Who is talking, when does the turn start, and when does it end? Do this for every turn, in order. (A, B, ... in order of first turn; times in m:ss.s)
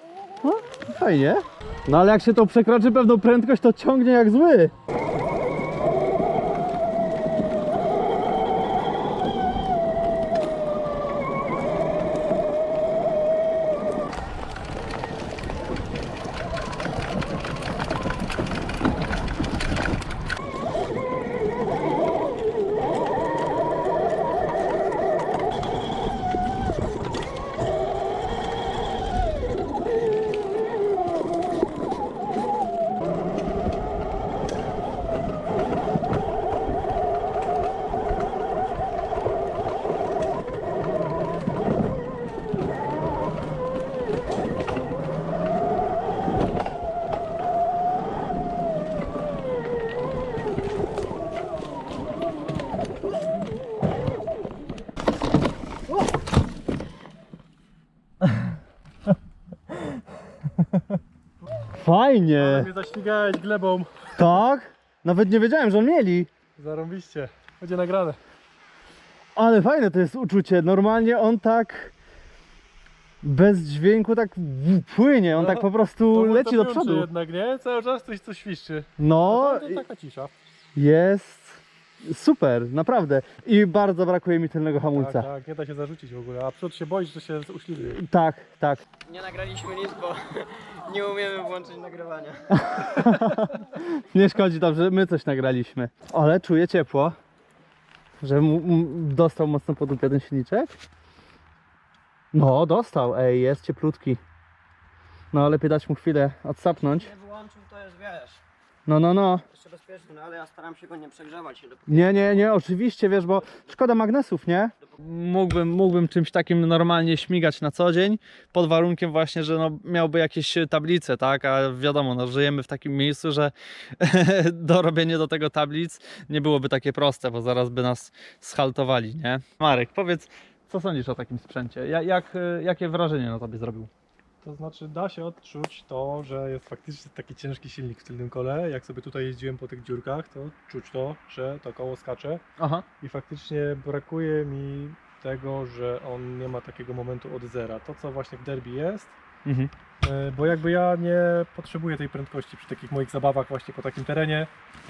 0:00.4-0:04.7 A
1:01.7-1:02.7 A
1:02.4-1:04.4 B
1:04.2-1:06.3 A
1:06.6-1:08.2 B
1:09.4-1:11.9 A
1:13.2-1:17.1 A
1:15.3-1:20.3 B
1:19.0-1:19.8 A
1:20.8-1:25.3 A
1:24.9-1:28.0 B
1:27.8-1:28.8 A
1:29.1-1:33.1 C
1:32.5-1:37.2 A
1:38.2-1:40.7 A
1:42.3-1:44.2 A
1:45.3-1:47.1 A
1:46.8-1:48.4 C
1:48.9-1:49.4 A
1:49.5-1:52.5 C
1:51.9-2:13.9 A
2:14.4-2:22.4 B
2:22.6-2:22.8 A
2:23.0-2:29.2 B
2:29.4-2:29.7 A
2:30.0-2:34.5 B